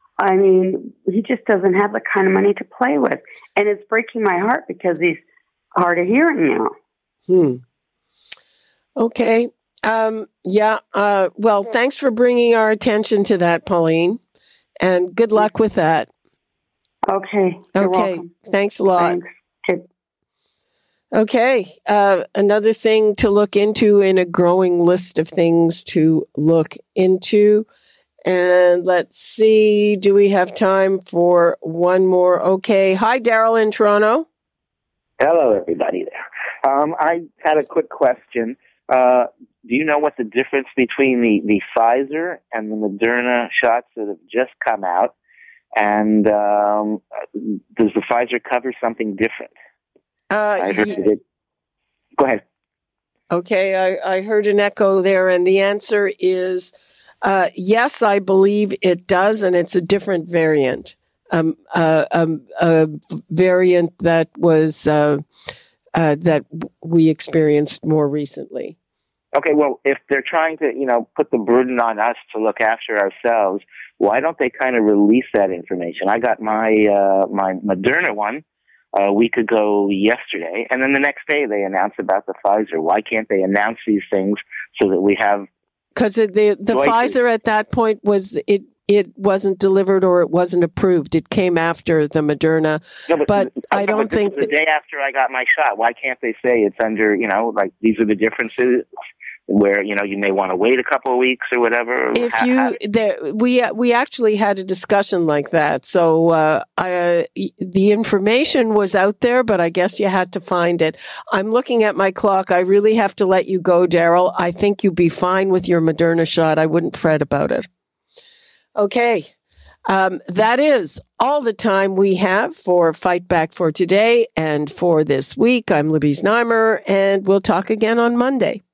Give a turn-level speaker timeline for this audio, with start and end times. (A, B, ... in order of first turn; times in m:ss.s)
0:00.2-0:05.2 A
0:05.8-0:06.7 A
0:07.3-0:07.6 B
0:09.0-0:14.2 B
0:14.8-0:16.1 B
0:17.1-0:18.3 A
0:17.8-0:19.2 B
0:19.0-0:19.8 A
0:21.1-0:27.7 B
0:28.2-0:34.3 B
0:35.2-0:45.1 C
0:45.8-0:49.5 C
0:50.3-0:51.0 B
0:50.6-0:51.2 C
0:52.2-0:52.4 C
0:53.3-1:05.2 B
1:06.0-1:08.8 B
1:09.4-1:18.4 C
1:19.0-1:25.5 C
1:26.0-1:34.5 B
1:26.7-1:27.2 C
1:33.1-1:38.9 C
1:39.5-1:42.8 C
1:42.2-1:57.7 B
1:58.8-1:59.3 B
1:59.9-2:08.6 B